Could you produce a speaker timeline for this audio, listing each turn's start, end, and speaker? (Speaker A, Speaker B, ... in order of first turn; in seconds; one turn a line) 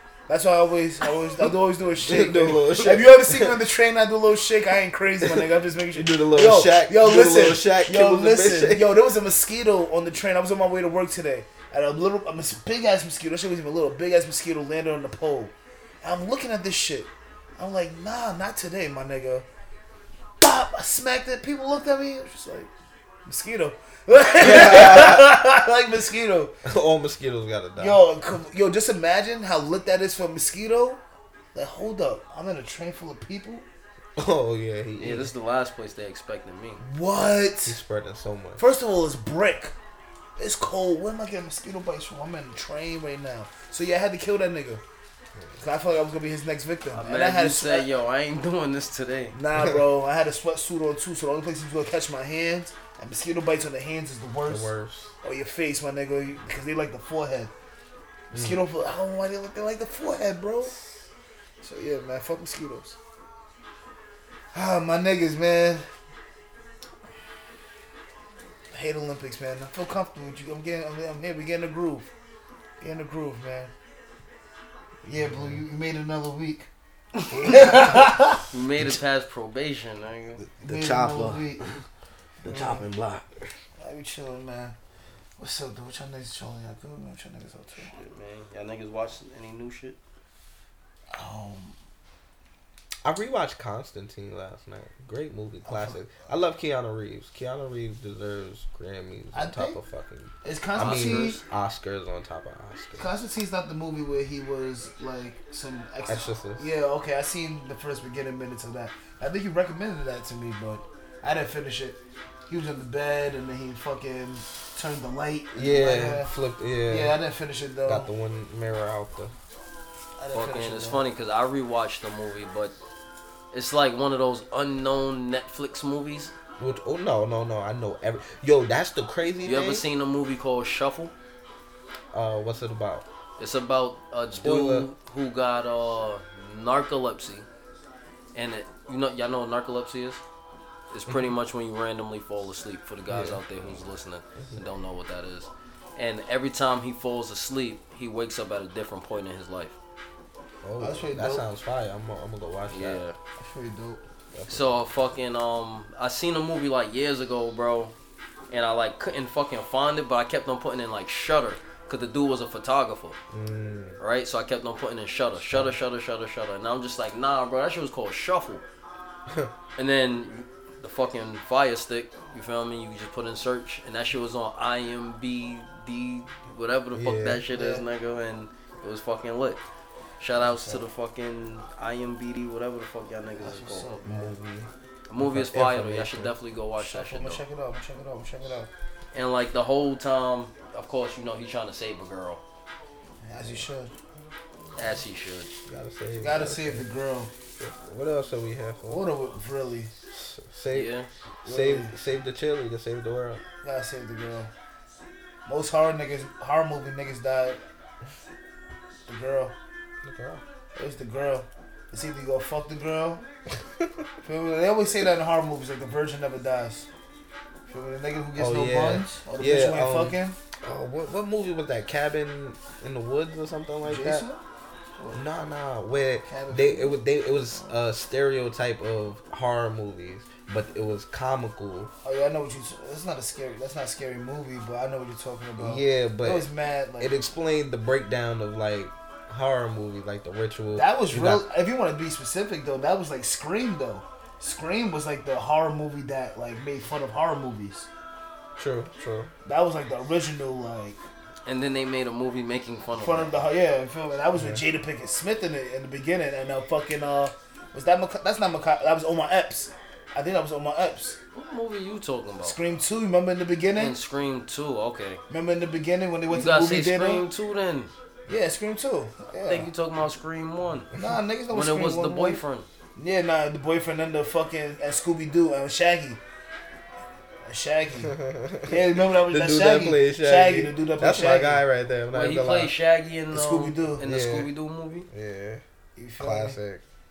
Speaker A: 0.3-19.5
Speaker B: 2.0-3.6
Speaker B: 5.2-8.9
Speaker A: 20.4-22.7
Speaker A: 23.3-26.5
Speaker B: 24.4-25.3
Speaker B: 26.6-28.0
Speaker A: 27.8-31.0
Speaker A: 31.5-33.7
Speaker B: 34.2-35.3
Speaker C: 35.0-36.8
Speaker A: 36.8-37.8
Speaker B: 37.7-38.6
Speaker A: 38.6-39.7
Speaker A: 40.4-44.8
Speaker A: 45.6-47.9
Speaker C: 46.9-49.4
Speaker A: 49.3-57.5
Speaker B: 54.5-55.1
Speaker A: 58.3-60.7
Speaker B: 58.3-58.6
Speaker A: 61.6-63.0
Speaker A: 64.5-65.9
Speaker A: 68.7-72.1
Speaker A: 72.8-73.7
Speaker A: 75.0-76.7
Speaker B: 75.2-75.6
Speaker C: 77.2-77.6
Speaker B: 77.3-78.2
Speaker A: 77.4-78.5
Speaker C: 78.5-80.4
Speaker A: 80.6-81.6
Speaker B: 80.6-81.8
Speaker A: 82.4-82.9
Speaker B: 82.5-83.5
Speaker A: 83.8-84.8
Speaker A: 85.4-88.0
Speaker C: 87.8-90.0
Speaker A: 91.1-91.8
Speaker B: 93.0-103.1
Speaker A: 95.7-96.0
Speaker A: 99.3-99.8
Speaker A: 100.4-101.4
Speaker C: 100.8-101.4
Speaker A: 103.0-116.3
Speaker B: 106.1-106.7
Speaker B: 115.5-117.2
Speaker A: 116.9-118.1
Speaker B: 117.9-119.3
Speaker A: 120.2-121.0
Speaker C: 120.3-122.8
Speaker C: 123.5-126.3
Speaker B: 126.6-129.8
Speaker C: 129.4-131.1
Speaker B: 132.1-133.1
Speaker C: 133.4-137.5
Speaker B: 134.3-134.9
Speaker C: 138.3-140.2
Speaker C: 140.9-149.8
Speaker B: 143.1-143.8
Speaker B: 150.6-153.0
Speaker A: 150.8-151.5
Speaker C: 152.7-153.2
Speaker A: 153.4-154.0
Speaker B: 154.3-154.8
Speaker C: 154.5-157.9
Speaker C: 158.5-163.2
Speaker B: 163.3-164.0
Speaker C: 164.0-168.6
Speaker B: 165.5-165.7
Speaker C: 169.8-179.6
Speaker B: 176.9-177.4
Speaker A: 177.5-177.8
Speaker C: 180.2-183.9
Speaker A: 180.3-180.8
Speaker A: 183.4-184.3
Speaker B: 184.1-186.3
Speaker C: 185.1-187.4
Speaker A: 186.8-188.7
Speaker C: 189.1-192.4
Speaker A: 193.2-193.9
Speaker C: 194.8-195.5
Speaker B: 195.7-196.9
Speaker A: 196.2-197.3
Speaker B: 197.6-199.1
Speaker A: 198.9-199.9
Speaker B: 200.1-200.9
Speaker C: 200.7-201.1
Speaker A: 201.4-201.9
Speaker B: 201.5-203.4
Speaker A: 203.6-204.5
Speaker A: 205.5-207.6
Speaker A: 209.1-209.6
Speaker B: 210.0-210.4
Speaker A: 210.8-213.2
Speaker A: 214.2-216.9
Speaker A: 217.7-220.4
Speaker B: 218.4-224.2
Speaker A: 223.8-224.4
Speaker B: 225.1-231.9
Speaker A: 226.3-227.0
Speaker A: 232.0-237.2
Speaker B: 235.6-236.5
Speaker B: 237.0-241.4
Speaker A: 240.8-247.9
Speaker B: 248.6-249.3
Speaker A: 249.4-251.0
Speaker C: 251.5-253.5
Speaker A: 252.9-261.2
Speaker B: 254.3-254.6
Speaker C: 261.3-262.6
Speaker A: 262.4-264.0
Speaker C: 263.8-265.2
Speaker A: 265.3-267.2
Speaker C: 266.3-267.9
Speaker A: 268.3-269.7
Speaker C: 269.3-270.9
Speaker A: 271.0-272.4
Speaker C: 271.5-272.7
Speaker A: 273.0-276.2
Speaker A: 277.5-281.6
Speaker B: 278.0-282.7
Speaker C: 282.1-285.1
Speaker A: 283.3-284.0
Speaker B: 284.0-284.5
Speaker B: 285.1-285.6
Speaker A: 286.0-286.6
Speaker B: 286.2-286.8